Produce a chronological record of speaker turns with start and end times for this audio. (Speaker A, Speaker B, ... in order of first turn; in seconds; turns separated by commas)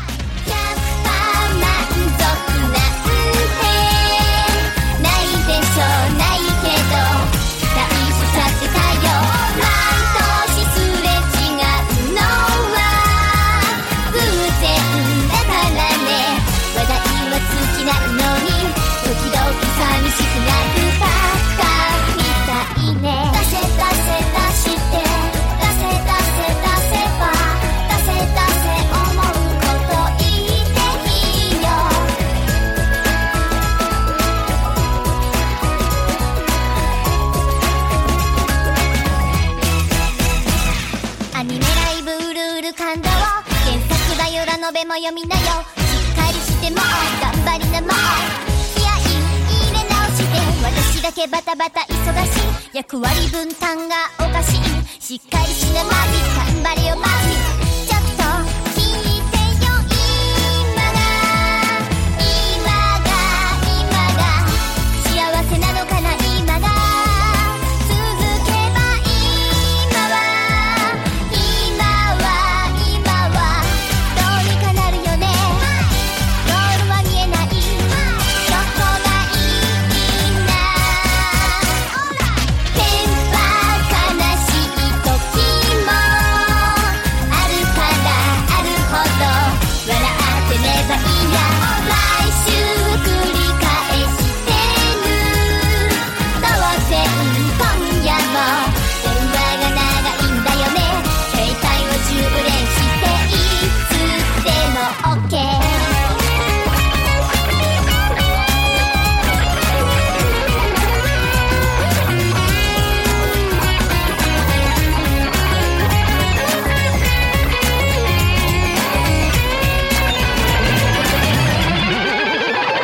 Speaker A: 0.4-32.2, Speaker A: 41.3-106.1